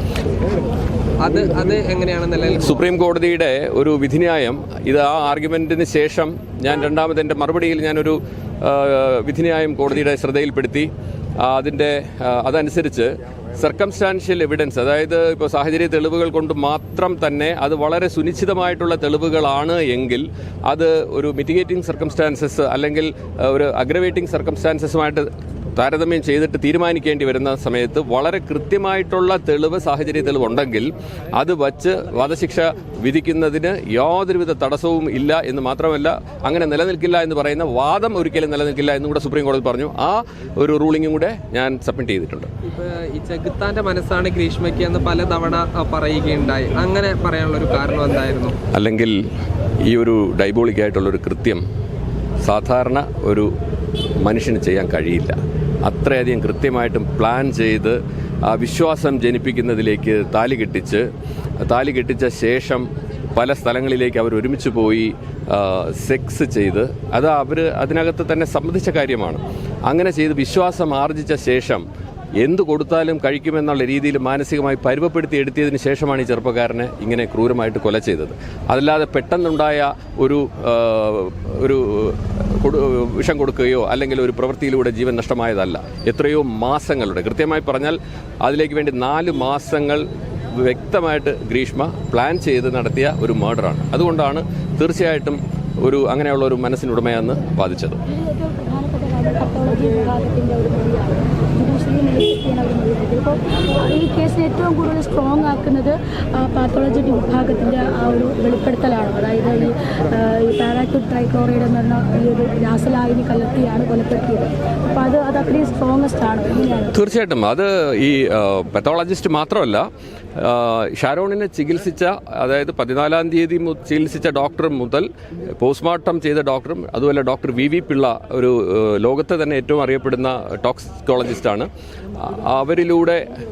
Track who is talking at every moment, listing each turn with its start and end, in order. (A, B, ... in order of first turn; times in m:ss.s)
0:01.2-0:02.8 A
0:02.6-0:42.5 B
0:42.6-0:48.6 A
0:48.7-0:49.2 B
0:49.9-0:51.6 B
0:52.4-0:53.5 B
0:54.2-1:01.1 B
1:01.6-1:11.8 B
1:12.4-1:38.0 B
1:38.1-1:57.0 C
1:56.9-1:59.8 B
2:00.4-2:13.2 B